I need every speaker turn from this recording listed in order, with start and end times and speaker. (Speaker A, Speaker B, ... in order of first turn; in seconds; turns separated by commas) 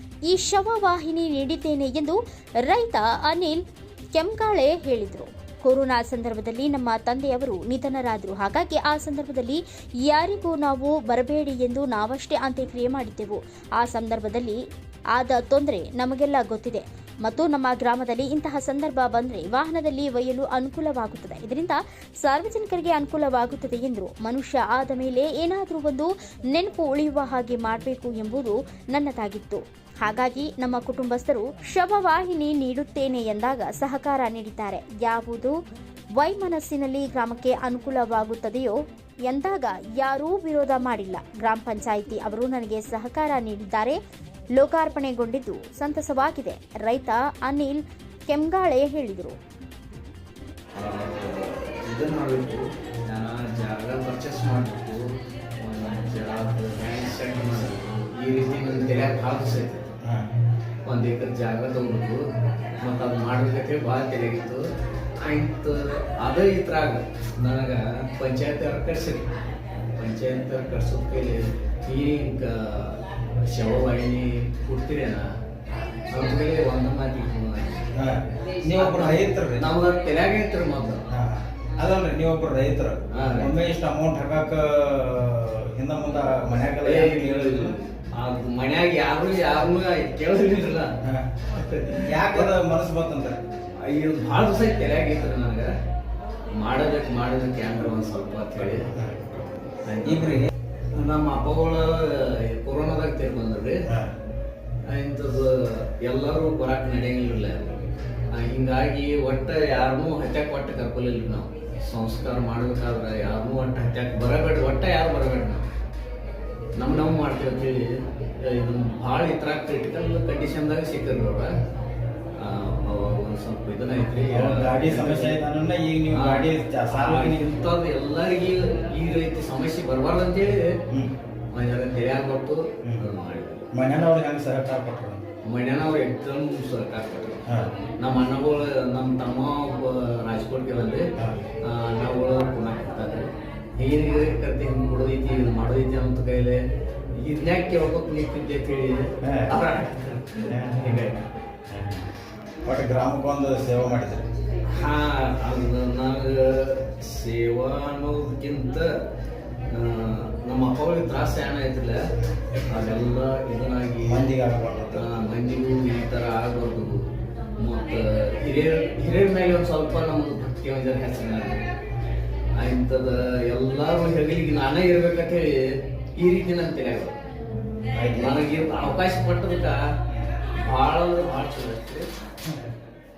Speaker A: 0.3-3.6, Speaker A: 4.1-14.6, Speaker A: 15.1-35.5, Speaker A: 36.2-38.7, Speaker A: 39.3-44.0, Speaker A: 44.5-49.4, Speaker B: 50.7-55.0, Speaker B: 55.6-59.9, Speaker C: 60.0-60.3, Speaker B: 60.8-62.2, Speaker B: 62.8-64.6, Speaker B: 65.2-69.3, Speaker B: 70.0-75.3, Speaker B: 76.1-77.9, Speaker C: 77.9-79.7, Speaker B: 78.8-81.0, Speaker C: 81.1-87.7, Speaker B: 83.1-83.5, Speaker B: 86.6-90.9, Speaker C: 91.0-91.4, Speaker B: 91.5-92.5, Speaker C: 92.0-93.4, Speaker B: 93.8-95.7, Speaker B: 96.5-98.9, Speaker C: 98.9-99.4, Speaker B: 99.8-103.8, Speaker C: 100.0-100.5, Speaker B: 104.9-107.8, Speaker B: 108.3-115.6, Speaker B: 116.8-117.8, Speaker B: 118.4-121.5, Speaker B: 122.3-125.4, Speaker C: 124.3-127.6, Speaker B: 126.1-130.8, Speaker C: 130.9-131.1, Speaker B: 131.5-133.7, Speaker C: 133.7-135.2, Speaker B: 135.4-137.4, Speaker C: 137.5-137.7, Speaker B: 138.0-141.1, Speaker C: 141.2-141.4, Speaker B: 141.6-146.6, Speaker B: 147.1-151.2, Speaker C: 149.2-149.5, Speaker C: 150.5-151.2, Speaker C: 151.7-152.1, Speaker C: 152.6-154.2, Speaker B: 154.7-158.9, Speaker B: 159.7-162.0, Speaker B: 162.7-164.2, Speaker C: 164.0-165.1, Speaker B: 164.9-166.9, Speaker B: 167.6-171.6, Speaker B: 172.6-177.1, Speaker C: 177.9-178.4, Speaker B: 178.1-179.8, Speaker B: 180.6-182.1